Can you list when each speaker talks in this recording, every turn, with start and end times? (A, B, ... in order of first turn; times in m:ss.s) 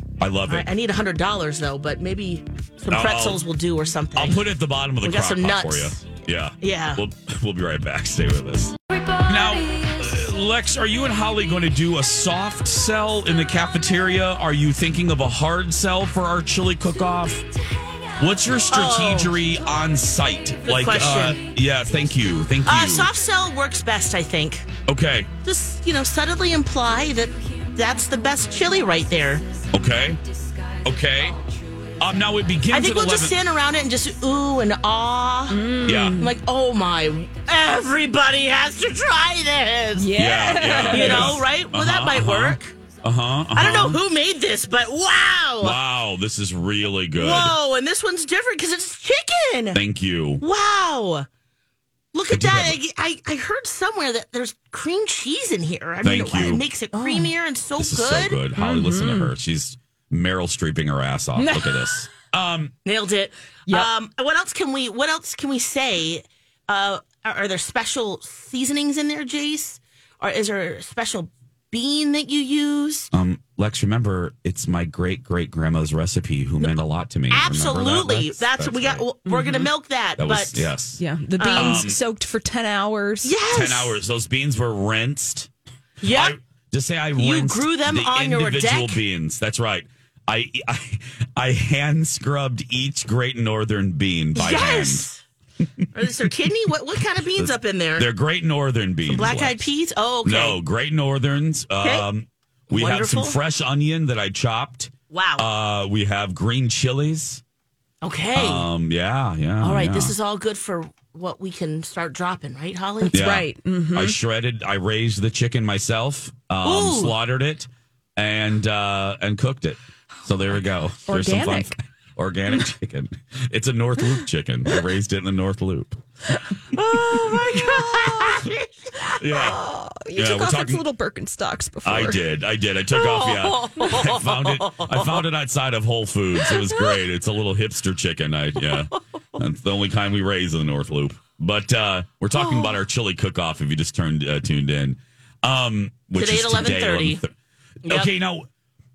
0:00.2-0:00.7 A
0:00.5-0:04.4 B
0:02.9-0:03.4 A
0:04.2-0:17.5 A
0:05.0-0:06.0 B
0:06.6-0:07.0 B
0:18.2-0:23.1 A
0:18.7-0:19.4 B
0:20.6-0:21.4 B
0:22.6-0:24.7 B
0:24.9-0:25.3 A
0:25.4-0:29.5 B
0:29.7-0:30.2 A
0:30.8-0:31.4 A
0:32.0-0:33.4 A
0:32.7-0:40.2 B
0:35.5-0:36.3 C
0:35.8-0:36.2 A
0:40.0-0:41.4 C
0:40.2-0:44.0 A
0:40.9-0:42.7 B
0:43.6-0:45.8 B
0:45.6-0:47.6 A
0:47.2-0:49.8 B
0:49.7-0:50.4 A
0:50.4-0:51.3 B
0:52.1-0:58.4 B
0:52.3-0:52.8 A
0:56.0-0:56.6 A
0:56.9-0:57.3 C
0:57.8-1:02.7 A
0:58.6-0:59.3 C
1:01.4-1:02.0 C
1:02.9-1:13.1 B
1:13.1-1:19.0 A
1:17.3-1:20.7 B
1:19.3-1:19.7 C
1:20.2-1:21.0 A
1:21.0-1:23.3 C
1:21.4-1:21.9 B
1:21.5-1:22.0 A
1:23.2-1:24.0 B
1:23.5-1:25.5 A
1:26.0-1:26.4 B
1:26.0-1:35.1 A
1:27.2-1:29.0 B
1:34.4-1:35.2 B
1:35.9-1:38.1 B
1:37.4-1:39.7 A
1:39.1-1:40.6 B
1:40.2-1:47.4 A
1:41.8-1:42.1 B
1:42.7-1:43.4 B
1:45.1-1:45.5 B
1:48.0-1:48.7 B
1:48.4-1:50.2 A
1:49.6-1:53.2 B
1:53.0-1:54.2 C
1:53.1-2:06.0 A
1:56.6-1:57.2 B
2:01.1-2:01.8 C
2:06.7-2:09.4 B
2:09.2-2:09.6 A
2:09.4-2:12.2 C
2:10.2-2:10.8 A
2:11.8-2:27.3 A
2:12.9-2:15.2 B
2:18.7-2:19.4 B
2:22.4-2:22.8 B
2:26.2-2:27.2 B
2:27.8-2:28.1 B
2:27.9-2:28.5 A